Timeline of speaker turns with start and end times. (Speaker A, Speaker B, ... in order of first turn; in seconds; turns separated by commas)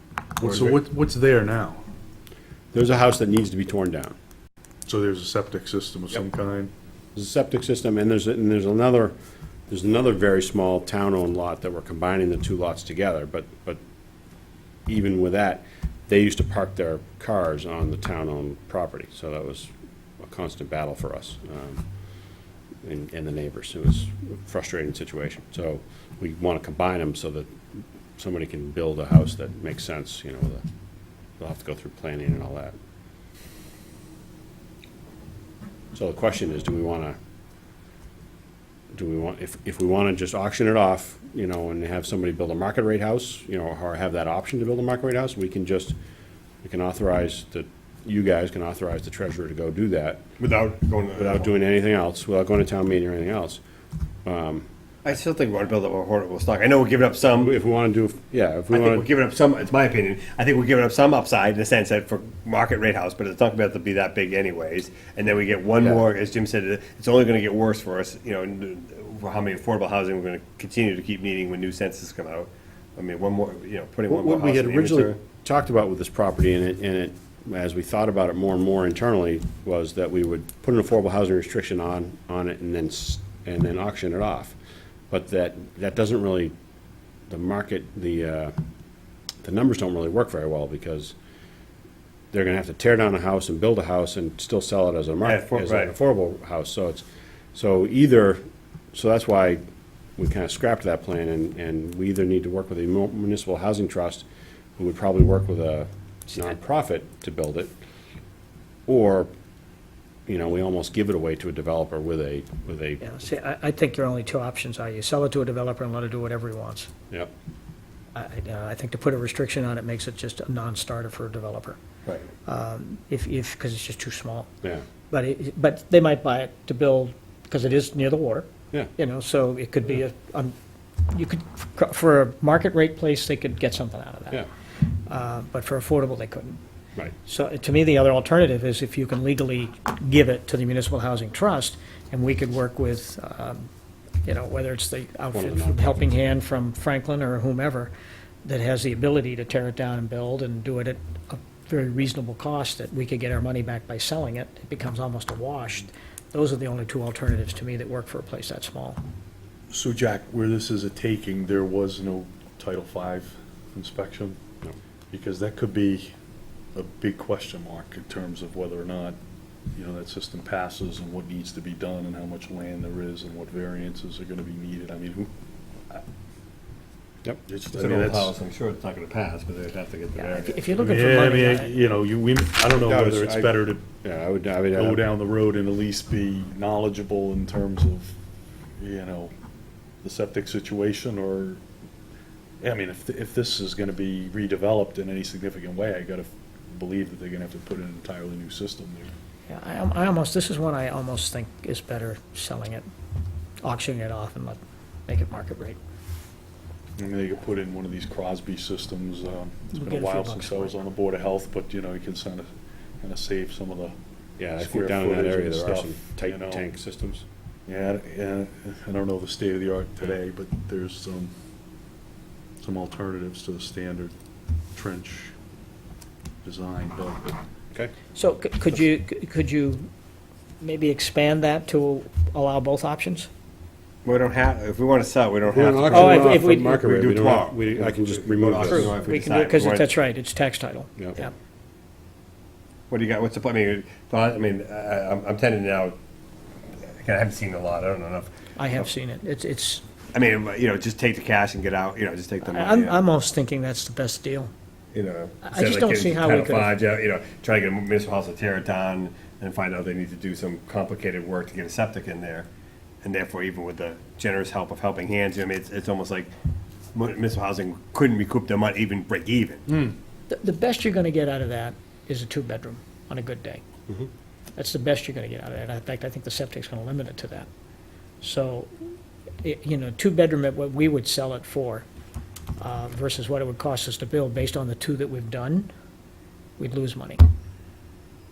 Speaker A: 0.4-1.8, Speaker B: 0.4-0.8, Speaker C: 2.7-4.1, Speaker A: 4.8-6.7, Speaker C: 7.2-9.1, Speaker C: 9.7-13.8, Speaker C: 14.9-21.9, Speaker C: 22.8-30.6, Speaker C: 31.4-32.7, Speaker C: 35.9-37.1, Speaker C: 38.9-45.9, Speaker C: 46.6-50.2, Speaker B: 50.4-51.5, Speaker C: 51.1-53.6, Speaker C: 54.2-54.6, Speaker B: 55.0-57.5, Speaker C: 57.4-59.1, Speaker B: 58.7-75.2, Speaker C: 74.1-84.5, Speaker C: 85.1-86.5, Speaker C: 87.3-88.5, Speaker C: 89.4-91.1, Speaker C: 92.3-98.4, Speaker B: 95.2-95.9, Speaker C: 98.9-99.6, Speaker C: 100.2-104.2, Speaker C: 104.8-107.7, Speaker C: 108.9-109.3, Speaker C: 110.3-113.0, Speaker D: 113.0-116.9, Speaker D: 118.1-121.8, Speaker D: 122.4-124.5, Speaker D: 125.1-130.5, Speaker D: 131.1-134.4, Speaker D: 135.1-136.6, Speaker D: 137.2-143.7, Speaker D: 144.2-147.9, Speaker C: 145.3-146.3, Speaker D: 148.4-159.0, Speaker A: 159.7-164.4, Speaker A: 165.1-166.1, Speaker A: 166.7-169.2, Speaker A: 169.7-175.3, Speaker A: 177.5-178.3, Speaker B: 177.7-180.7, Speaker D: 180.2-181.8, Speaker A: 180.7-183.8, Speaker C: 182.7-185.0, Speaker A: 184.8-188.1, Speaker A: 188.8-189.3, Speaker A: 190.0-191.6, Speaker A: 192.6-199.1, Speaker D: 199.5-202.9, Speaker D: 203.6-205.8, Speaker A: 207.0-212.5, Speaker D: 209.7-210.8, Speaker A: 213.0-213.9, Speaker C: 214.4-217.2, Speaker A: 214.6-216.6, Speaker A: 217.7-221.3, Speaker A: 222.6-224.1, Speaker A: 224.7-225.3, Speaker A: 226.4-227.3, Speaker D: 228.1-229.9, Speaker D: 230.6-233.3, Speaker B: 234.0-239.9, Speaker C: 235.5-238.9, Speaker D: 235.9-236.7, Speaker D: 238.6-241.3, Speaker B: 242.9-245.9, Speaker B: 246.8-248.3, Speaker D: 248.6-249.8, Speaker B: 250.1-253.0, Speaker D: 252.4-254.5, Speaker B: 254.9-262.5, Speaker D: 255.4-256.8, Speaker B: 263.0-266.3, Speaker B: 266.9-269.7, Speaker D: 270.3-273.6, Speaker D: 274.6-277.5, Speaker D: 278.2-278.7, Speaker D: 279.4-281.9, Speaker D: 282.6-285.7, Speaker D: 286.6-287.2